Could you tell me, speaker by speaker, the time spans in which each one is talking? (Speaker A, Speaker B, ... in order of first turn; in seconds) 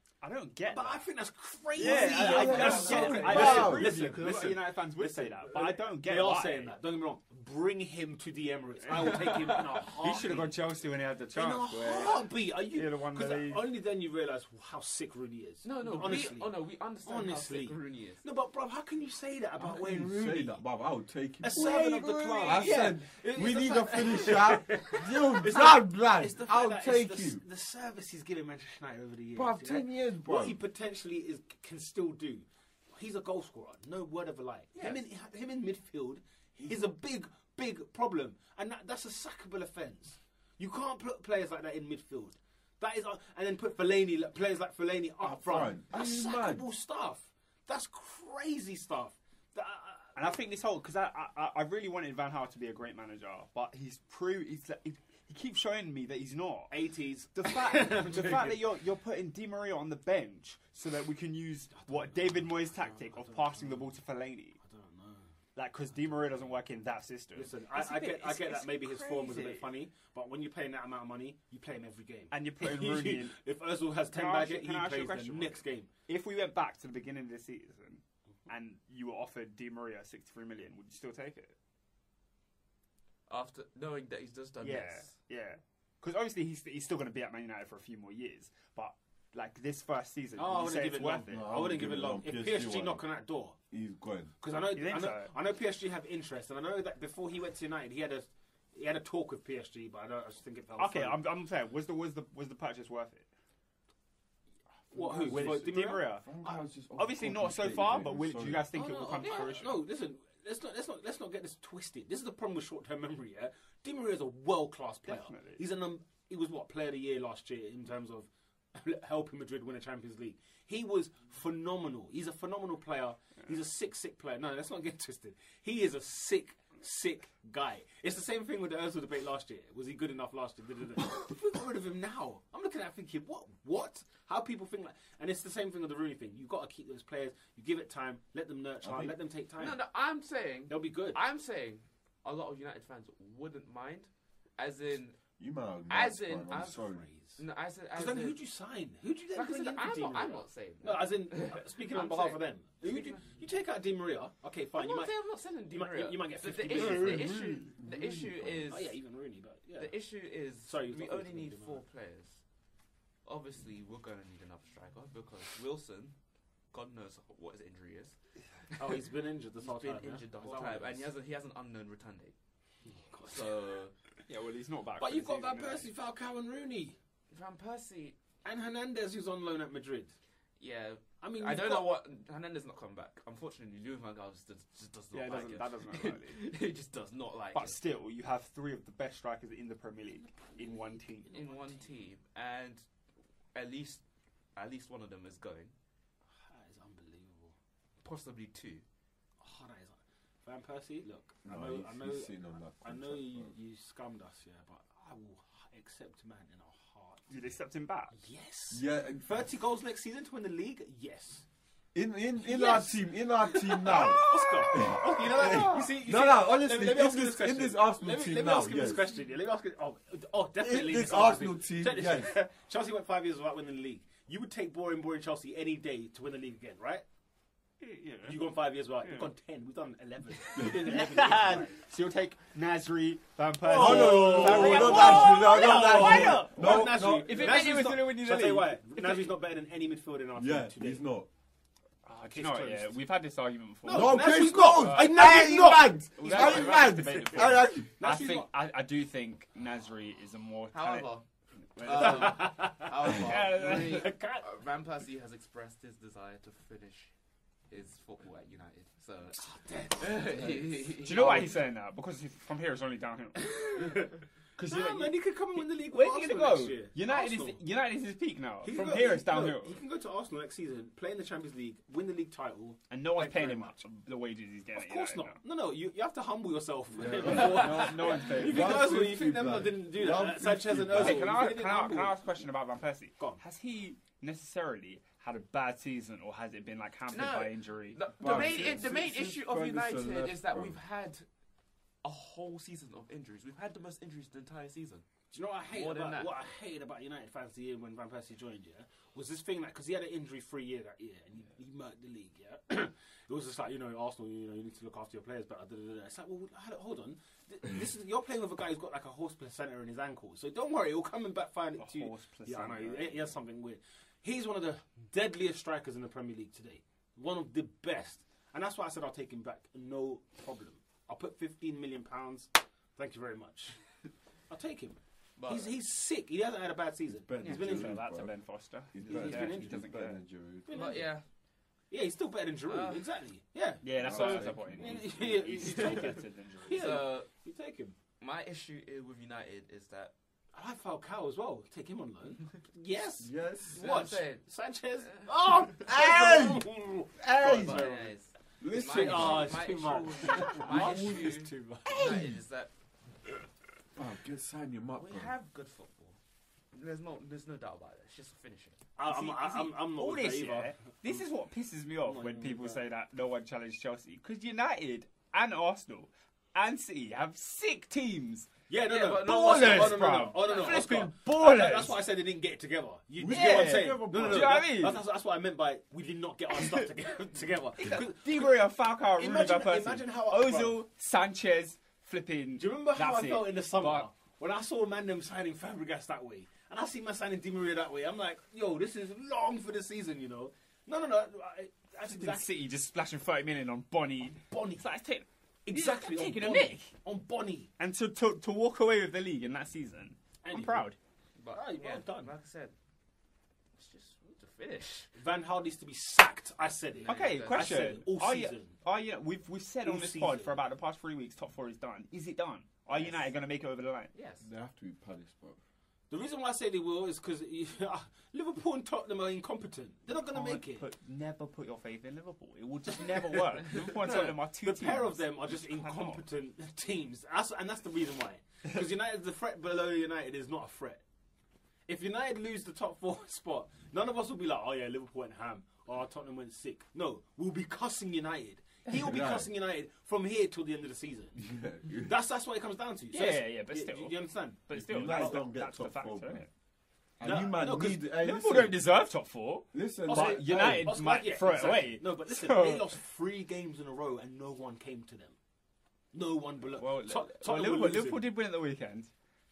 Speaker A: 0.2-1.1, 1.8-6.7, 8.8-13.7, 50.1-56.7, 57.3-64.6, 65.5-69.7, 72.3-73.4, 74.1-81.5, 84.6-91.3, 94.7-95.3, 100.8-103.3, 105.2-109.8, 115.0-115.6, 156.8-157.5, 174.3-175.9, 185.1-186.5, 187.5-191.3, 207.3-208.2, 214.8-215.8, 227.8-228.4, 229.0-229.3, 230.6-239.3, 242.1-251.1, 251.8-254.1, 261.0-269.8, 272.9-275.4, 277.0-279.1, 280.9-288.8, 311.8-313.3, 327.4-330.2, 333.8-337.0, 359.0-368.5, 369.2-372.0, 373.2-375.0, 376.6-376.8, 377.8-384.1, 392.1-396.9, 397.8-400.9, 407.1-414.1, 420.1-426.2, 443.1-446.5, 448.1-453.0, 456.8-459.1
Speaker B: 0.7-10.5, 11.3-20.6, 21.4-50.4, 56.7-58.6, 61.7-63.9, 64.6-65.3, 67.3-75.9, 90.3-93.6, 94.4-101.2, 104.9-106.1, 108.7-139.8, 140.7-141.2, 146.8-147.4, 147.9-157.3, 158.7-161.8, 168.8-171.1, 172.8-173.8, 175.0-176.9, 178.4-180.2, 181.2-181.9, 190.4-191.9, 196.3-197.5, 199.4-207.2, 208.1-211.4, 212.4-227.0, 228.2-231.8, 233.6-241.0, 242.3-243.0, 243.8-248.5, 251.8-254.4, 259.4-261.6, 263.4-267.6, 268.6-273.8, 274.7-282.2, 295.3-323.8, 324.5-328.0, 329.0-329.9, 330.6-331.1, 331.9-337.9, 340.5-348.1, 348.8-352.2, 358.9-361.2, 362.0-362.8, 368.7-378.6, 379.1-380.8, 382.6-392.4, 394.5-394.8, 395.6-397.7, 400.4-400.9, 401.5-402.3, 405.1-408.8, 409.8-410.6, 416.1-420.9, 422.9-431.0, 431.9-441.4, 442.0-445.4, 447.2-448.1, 450.1-455.4, 456.1-458.2
Speaker C: 1.8-4.0, 19.6-27.4, 29.3-30.6, 45.2-46.6, 91.3-93.0, 93.7-94.3, 104.9-108.7, 138.8-139.1, 145.4-147.1, 157.1-158.7, 201.4-203.5, 208.7-209.4, 211.9-219.0, 220.6-222.3, 230.5-230.8, 233.7-237.6, 240.3-241.3, 243.9-247.9, 276.9-281.3, 288.2-290.8, 327.2-328.4, 328.9-331.1, 333.9-335.6, 343.2-343.8, 345.8-347.9, 348.6-349.7, 350.6-351.3, 352.0-352.3, 353.9-355.3, 373.2-374.7, 414.4-415.6, 439.0-439.5, 441.4-442.1, 444.7-446.4, 447.2-448.8, 449.7-450.9
Speaker D: 2.3-3.7, 8.9-9.9, 15.6-18.2, 34.8-35.0, 83.3-85.1, 109.2-109.7, 139.6-145.2, 145.9-148.4, 149.3-153.2, 154.7-159.0, 159.8-162.4, 163.2-166.2, 166.7-168.2, 169.6-172.3, 173.2-173.9, 177.3-178.2, 180.6-187.8, 191.3-192.9, 193.5-195.8, 198.0-198.8, 250.7-257.1, 257.7-261.6, 277.3-277.8, 287.1-291.3, 292.0-295.1, 295.7-296.3, 325.4-325.7, 330.7-331.2, 332.6-333.0, 335.6-337.3, 338.2-340.1, 343.7-344.5, 347.4-352.7, 354.9-356.2, 356.7-358.8, 368.9-371.1, 401.4-402.7, 403.7-405.1, 407.0-408.0, 414.1-414.5